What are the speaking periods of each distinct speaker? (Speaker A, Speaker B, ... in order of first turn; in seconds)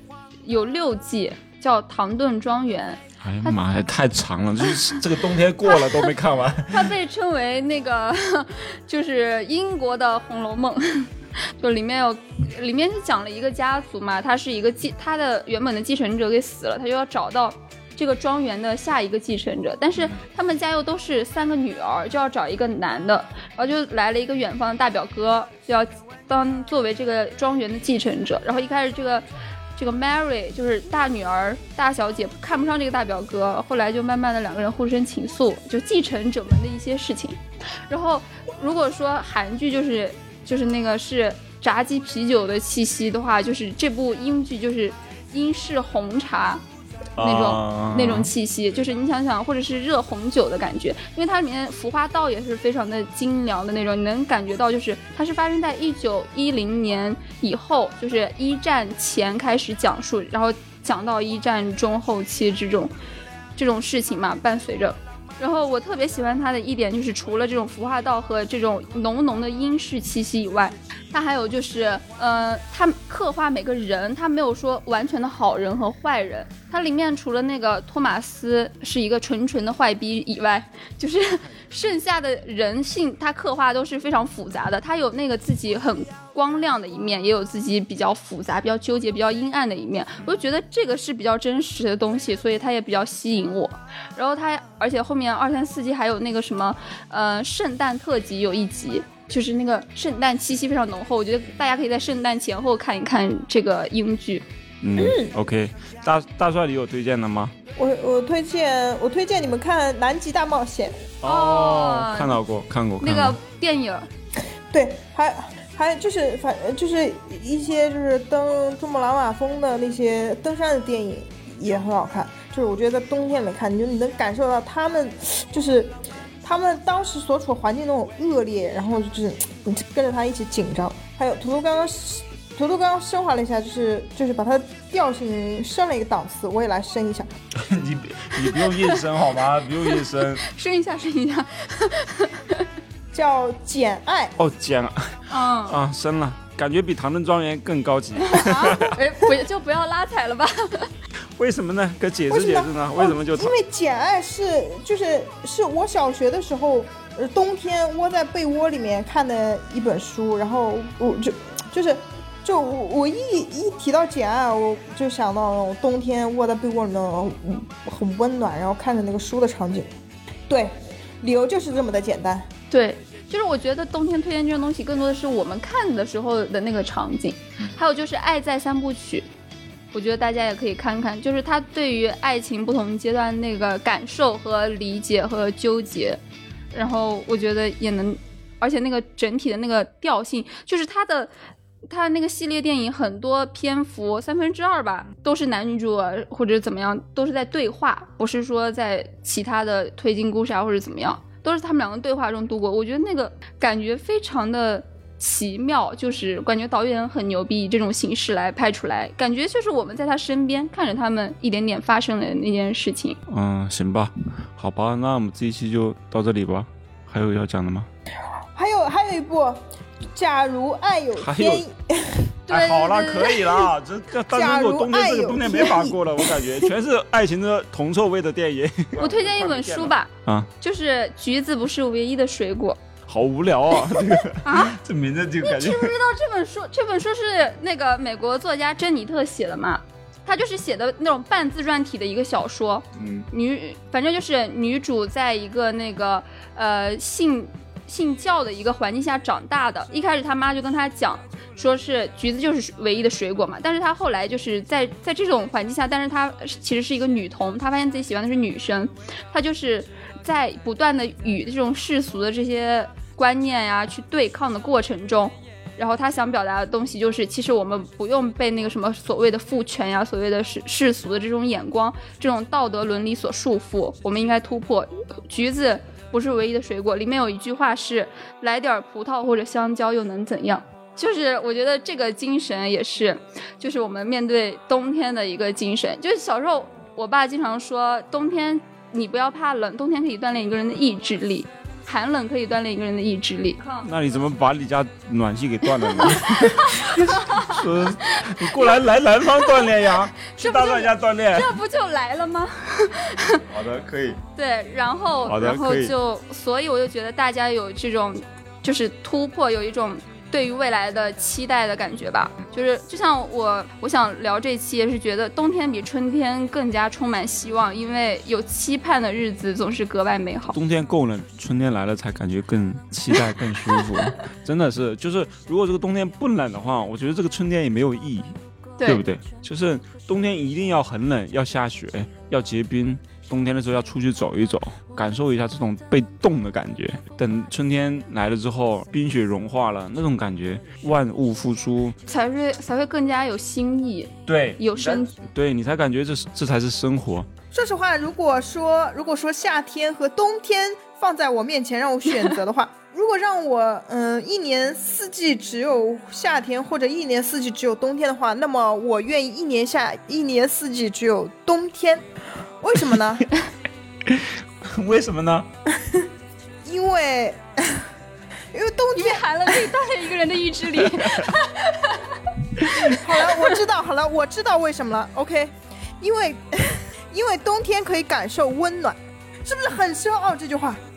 Speaker A: 0.4-3.6, 5.7-6.1, 6.7-46.6, 47.2-62.9, 63.6-104.4, 111.2-112.4, 113.0-114.1, 138.3-139.0, 139.8-142.7, 145.3-145.8, 148.2-150.9, 172.7-179.3, 179.9-186.2, 186.7-191.3, 191.9-213.2, 222.5-223.6, 229.0-232.8, 234.4-234.8, 235.4-293.9, 295.8-298.8, 299.4-303.4, 304.4-320.6, 323.1-324.1, 342.1-345.1, 352.1-352.4, 368.9-373.0
Speaker B: 3.2-6.9, 47.2-48.3, 104.8-107.5, 111.2-113.4, 137.6-140.4, 144.4-145.1, 145.7-149.0, 151.4-153.6, 213.3-217.9, 221.2-221.6, 222.5-230.5, 233.1-235.9, 242.9-243.3, 293.8-301.6, 303.5-304.2, 305.3-305.9, 320.6-341.9, 344.3-347.3, 364.1-365.5, 370.9-371.3, 372.6-373.0
Speaker C: 105.0-105.3, 107.8-111.0, 114.7-137.3, 143.1-144.3, 152.3-169.9, 170.5-172.5, 218.6-219.6, 220.1-222.3, 224.3-226.7, 347.5-362.1, 362.6-363.3, 365.7-366.1, 366.6-367.9, 368.5-369.7, 372.9-380.8